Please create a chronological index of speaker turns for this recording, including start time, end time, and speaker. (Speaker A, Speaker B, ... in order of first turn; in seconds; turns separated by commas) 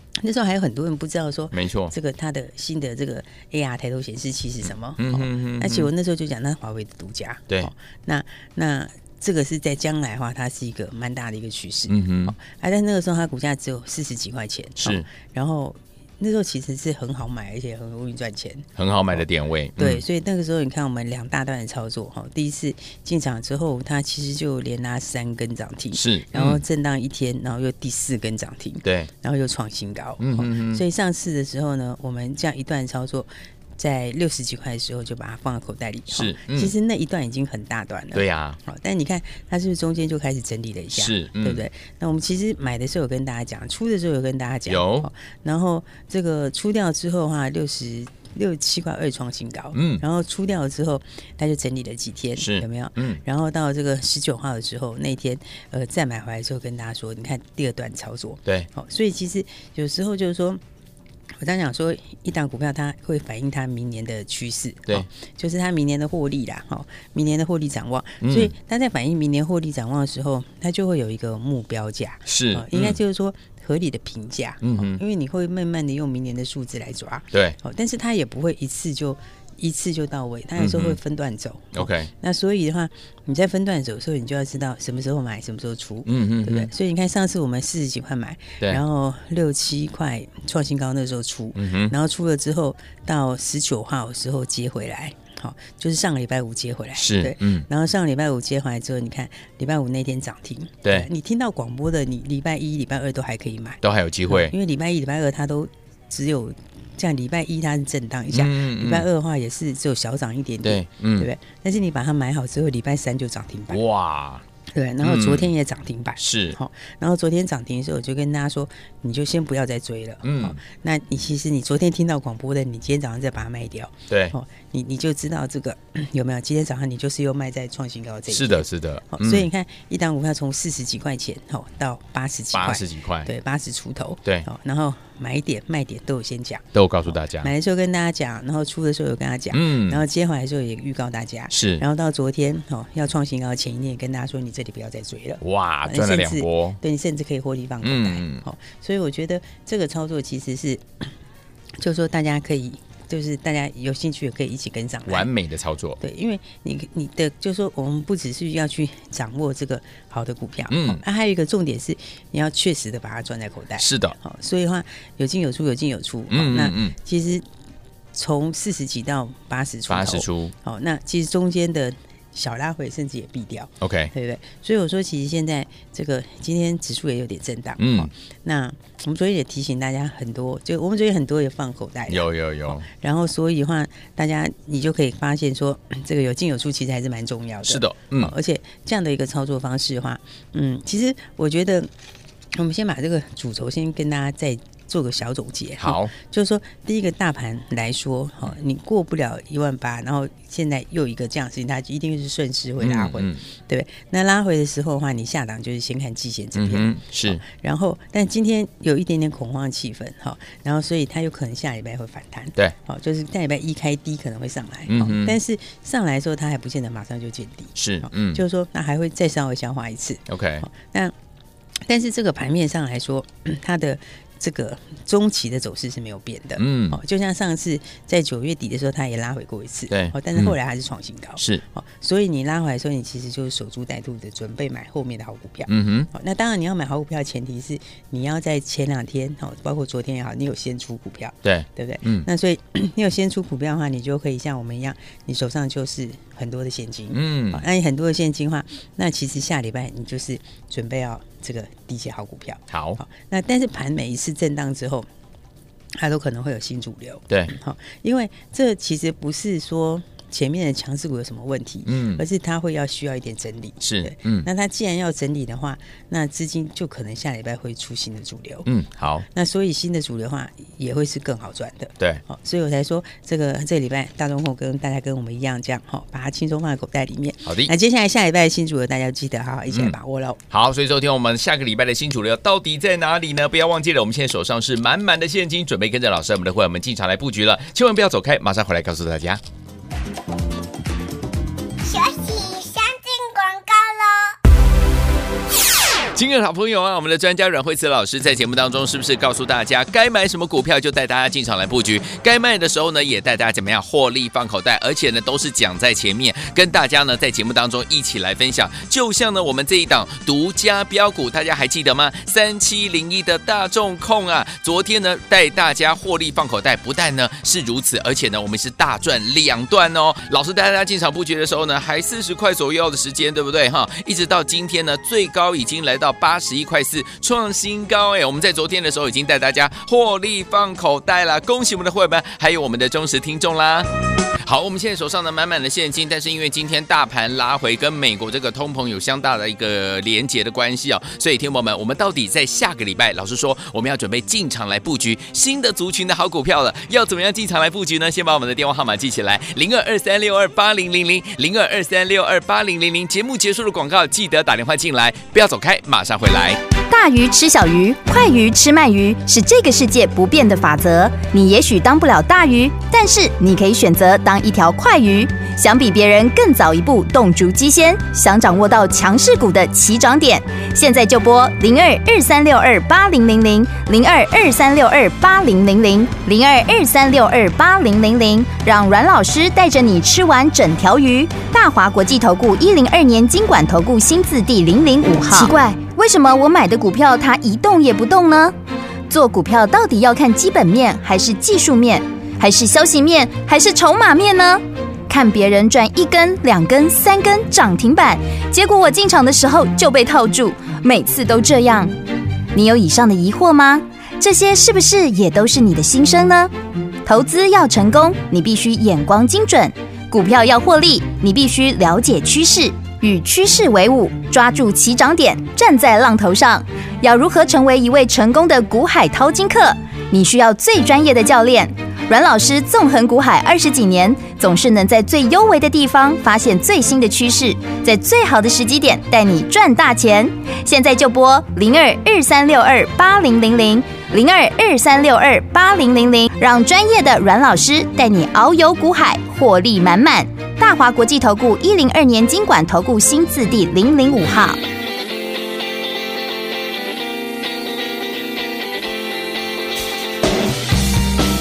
Speaker A: 0.2-19.2, Speaker B: 1.5-1.9, Speaker B: 5.0-5.9, Speaker B: 11.9-12.3, Speaker B: 14.8-15.1, Speaker B: 18.8-20.0, Speaker A: 19.8-60.6, Speaker B: 25.9-26.6, Speaker B: 28.8-29.1, Speaker B: 30.2-30.8, Speaker B: 36.1-36.7, Speaker B: 38.1-38.6, Speaker B: 40.9-41.6, Speaker B: 44.7-45.1, Speaker B: 49.7-50.0, Speaker B: 52.4-53.2, Speaker A: 61.4-113.8, Speaker B: 68.2-68.5, Speaker B: 72.3-73.0, Speaker B: 74.6-75.0, Speaker B: 77.3-77.6, Speaker B: 80.5-81.0, Speaker B: 81.7-82.1, Speaker B: 86.0-86.7, Speaker B: 91.5-91.9, Speaker B: 97.0-97.7, Speaker B: 100.8-101.1, Speaker B: 103.8-104.5, Speaker B: 108.3-109.0, Speaker B: 110.6-111.3, Speaker B: 113.7-114.4, Speaker A: 114.7-151.1, Speaker B: 115.0-115.5, Speaker B: 116.2-116.6, Speaker B: 120.2-120.6, Speaker B: 124.1-124.3, Speaker B: 128.3-129.5, Speaker B: 132.5-133.3, Speaker B: 136.7-137.5, Speaker B: 139.5-140.0, Speaker B: 141.5-141.8, Speaker B: 145.4-146.8, Speaker B: 147.8-148.4, Speaker A: 151.8-155.3, Speaker B: 155.1-156.0, Speaker A: 156.0-167.4, Speaker B: 160.7-161.0, Speaker B: 163.8-164.2, Speaker B: 166.3-166.9, Speaker A: 168.1-191.9, Speaker B: 169.9-170.5, Speaker B: 173.8-174.1, Speaker B: 177.8-178.1, Speaker B: 182.1-182.8, Speaker B: 187.7-188.3, Speaker A: 192.5-221.1, Speaker B: 195.8-196.1, Speaker B: 202.8-203.4, Speaker B: 206.5-207.4, Speaker B: 214.9-215.4, Speaker B: 217.8-218.4, Speaker B: 220.3-220.7, Speaker A: 221.8-255.1, Speaker B: 226.6-227.0, Speaker B: 229.9-230.6, Speaker B: 235.7-236.1, Speaker B: 241.4-242.3, Speaker B: 247.1-247.6, Speaker B: 252.7-253.0, Speaker A: 255.9-268.7, Speaker B: 261.9-262.2, Speaker B: 263.8-264.5, Speaker B: 268.6-269.2, Speaker A: 269.3-280.4, Speaker B: 277.4-277.7, Speaker B: 279.7-280.0, Speaker B: 280.5-289.4, Speaker C: 291.8-294.3, Speaker B: 296.1-356.6, Speaker D: 356.9-388.5, Speaker D: 389.1-401.9, Speaker D: 402.5-406.5, Speaker D: 407.0-444.6